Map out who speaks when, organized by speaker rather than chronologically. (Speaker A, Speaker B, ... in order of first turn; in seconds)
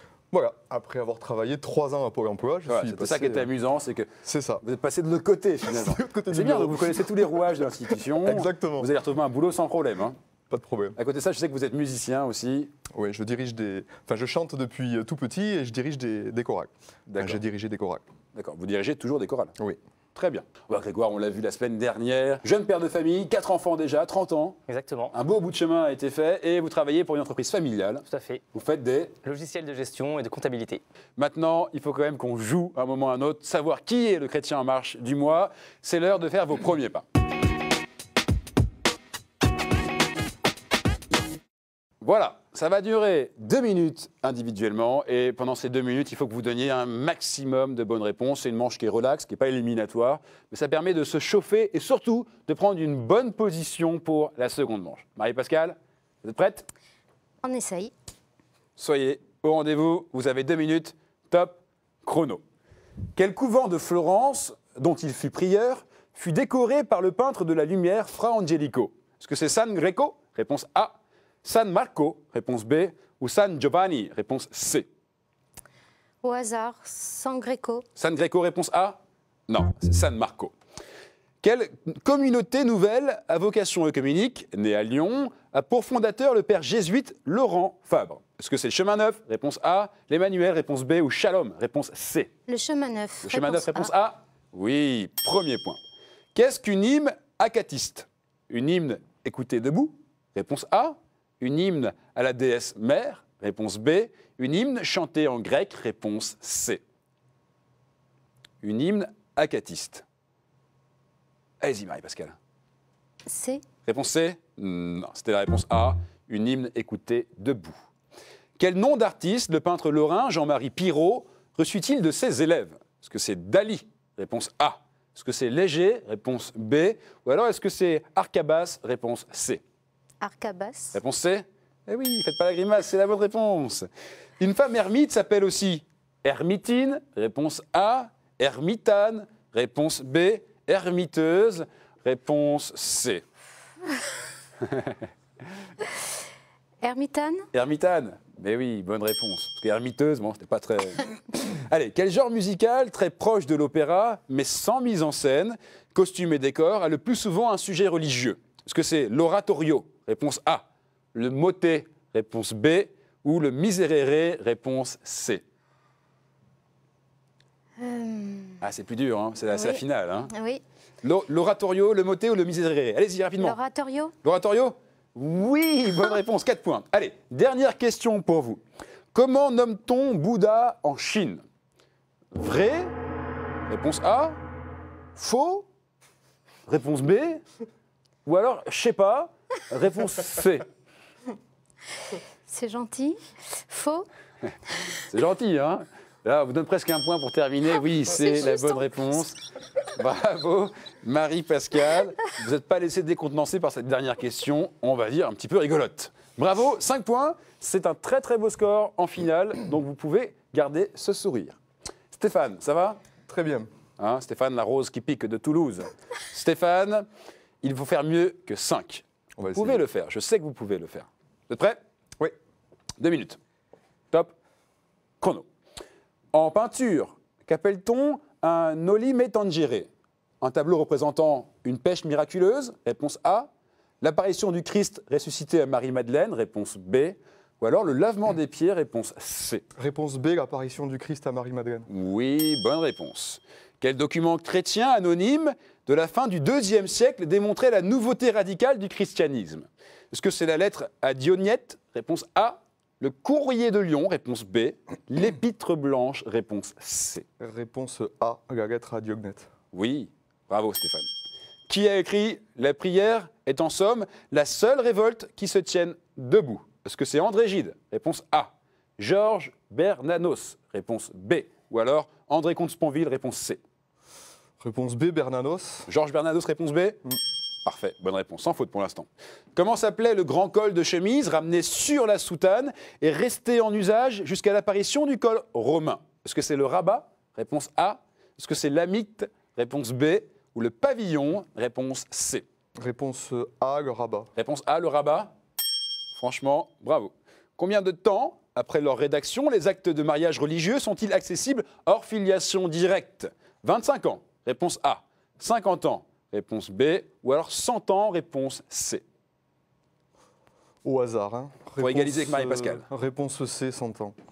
Speaker A: 0.3-3.5, 4.2-4.6, 5.6-7.5, 8.1-8.9, 10.5-11.0, 12.9-18.0, 213.3-213.7, 219.4-219.8, 239.7-241.9, 257.4-259.5, 274.6-275.9, 292.8-294.3, 310.8-314.1
Speaker B: 2.7-4.1, 4.6-10.2, 10.9-12.7, 17.1-17.4, 18.3-19.6, 20.1-24.6, 25.1-29.1, 31.2-37.0, 42.0-56.6, 58.8-62.4, 63.1-74.9, 78.0-80.5, 81.4-92.3, 93.2-95.8, 96.3-106.8, 108.6-110.0, 111.6-112.3, 113.8-117.8, 118.6-129.6, 130.9-133.9, 134.4-143.2, 144.6-144.9, 147.5-165.4, 168.6-170.3, 171.0-173.6, 174.2-178.6, 179.1-181.4, 182.3-182.9, 183.7-184.4, 185.2-185.7, 186.7-187.4, 188.2-190.6, 195.1-199.4, 199.9-211.6, 212.1-213.0, 214.0-217.1, 217.6-221.8, 223.0-223.4, 225.2-225.5, 226.3-229.9, 230.4-233.5, 234.0-239.6, 241.9-257.2, 259.7-261.1, 261.7-273.6, 275.9-277.0, 277.6-292.4, 294.4-295.3, 296.1-309.0, 311.8-312.8
Speaker C: 24.7-25.1, 28.1-28.4, 29.2-30.8
Speaker D: 57.4-57.9, 76.2-77.8, 92.5-93.9, 113.2-113.6, 130.2-131.0, 146.8-147.5, 167.8-168.6, 169.5-170.6, 173.4-174.1, 192.5-194.1, 198.1-198.9